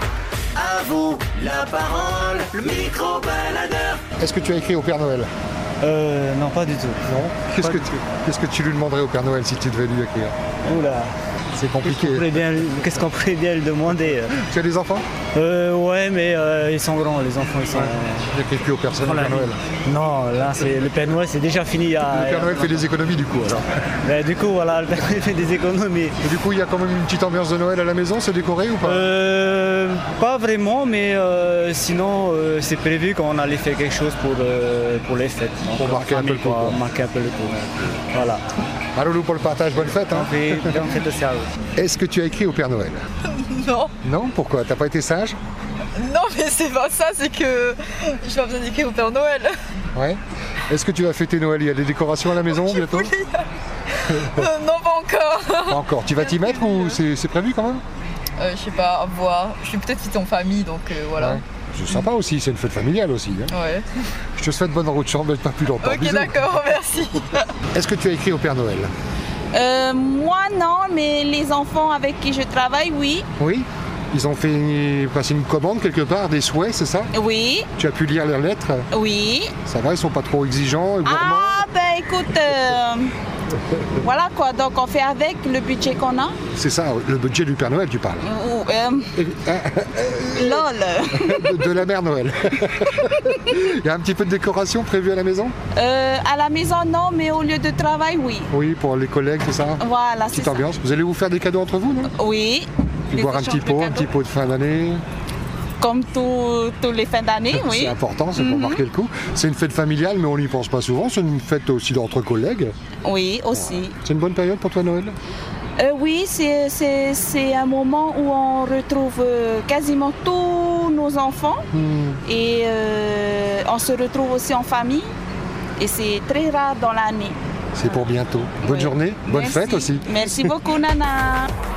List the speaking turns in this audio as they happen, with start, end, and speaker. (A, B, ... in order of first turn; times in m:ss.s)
0:00.6-0:04.0 A
0:04.2-0:05.3 B
0:05.8-0:07.0 C
0:07.0-0:10.3 B
0:07.6-0:08.0 C
0:10.6-0:14.4 C
0:11.6-0:12.3 B
0:14.4-0:15.1 B
0:15.3-0:18.3 C
0:17.7-0:19.6 B
0:19.0-0:22.9 C
0:22.1-0:23.7 B
0:24.0-0:26.2 C
0:26.2-0:29.1 B
0:28.8-0:38.4 C
0:35.7-0:36.8 B
0:38.9-0:40.9 B
0:39.8-0:41.5 C
0:41.7-0:43.0 B
0:43.2-0:43.9 D
0:44.0-0:45.4 B
0:46.0-0:49.6 D
0:49.9-0:53.1 B
0:52.5-0:55.8 D
0:55.7-0:57.8 B
0:56.3-0:56.9 D
0:58.4-1:01.4 D
1:01.2-1:03.5 B
1:03.5-1:03.9 D
1:04.4-1:06.4 B
1:05.8-1:07.4 D
1:07.7-1:08.9 B
1:09.5-1:13.3 E
1:13.4-1:17.1 B
1:17.1-1:17.7 E
1:17.8-1:18.9 B
1:18.9-1:19.6 E
1:19.6-1:21.6 B
1:21.0-1:23.1 E
1:24.0-1:26.4 E
1:26.5-1:28.3 B
1:28.2-1:29.1 E
1:29.2-1:35.5 B
1:30.3-1:31.6 E
1:35.7-1:38.5 E
1:38.5-1:42.1 B
1:39.8-1:40.7 E
1:42.1-1:44.1 E
1:43.1-1:45.0 B
1:45.8-1:48.8 E
1:47.5-1:52.7 B
1:53.0-1:53.9 E
1:53.5-1:55.2 B
1:55.8-2:01.7 E
2:01.7-2:02.2 B
2:02.2-2:05.1 E
2:05.8-2:07.4 E
2:07.7-2:10.5 B
2:08.6-2:11.5 E